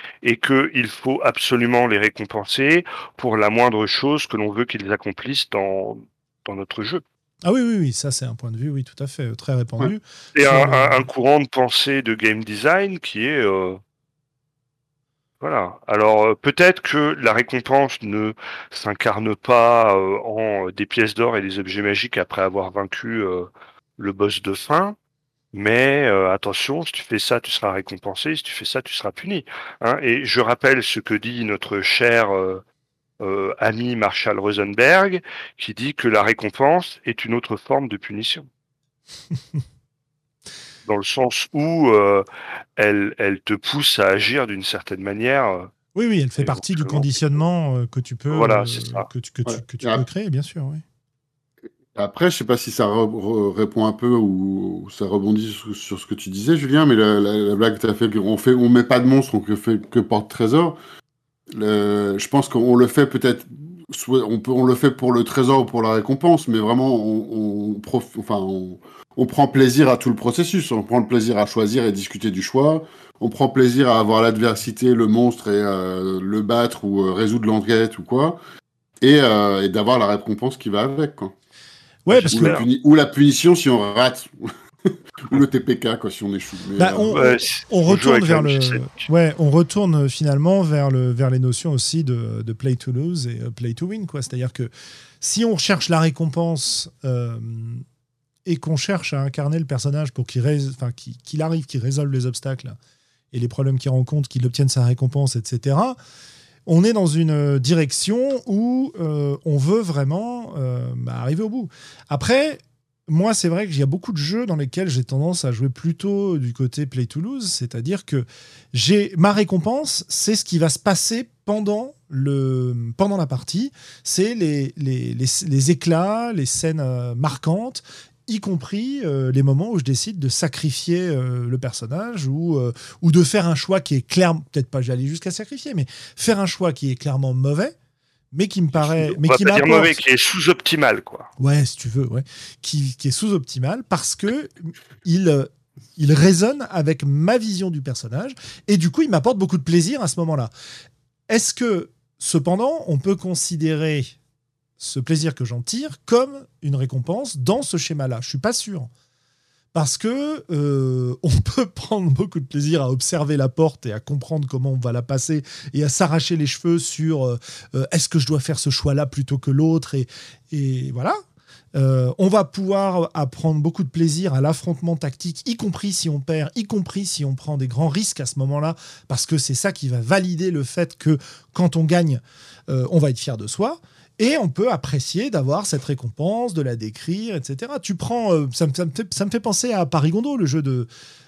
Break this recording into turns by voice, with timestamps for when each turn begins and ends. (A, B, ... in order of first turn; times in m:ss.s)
0:00.2-0:07.0 A
0:07.4-0:11.1 B
0:10.4-0:13.8 A
0:15.4-0:25.0 A
0:25.5-0:32.6 A
0:33.2-0:38.5 A
0:40.9-0:42.2 A
0:42.8-0:45.7 A
0:46.0-0:50.8 B
0:46.4-0:47.2 A
0:48.3-0:49.1 A
0:49.5-0:50.0 C
0:52.0-1:00.8 C
1:01.5-1:18.4 C
1:19.0-1:21.3 C
1:22.1-1:22.6 B
1:22.1-1:22.6 A
1:22.3-1:27.2 C
1:26.8-1:34.7 B
1:27.1-1:29.0 A
1:35.2-1:37.8 B
1:38.4-1:42.8 B
1:43.3-1:46.0 B
1:46.7-2:17.8 B
2:18.3-2:20.0 B
2:18.8-2:21.3 A
2:21.4-2:30.5 B
2:31.3-2:34.2 B
2:34.8-2:38.9 B
2:39.7-2:51.2 B
2:51.8-3:10.9 B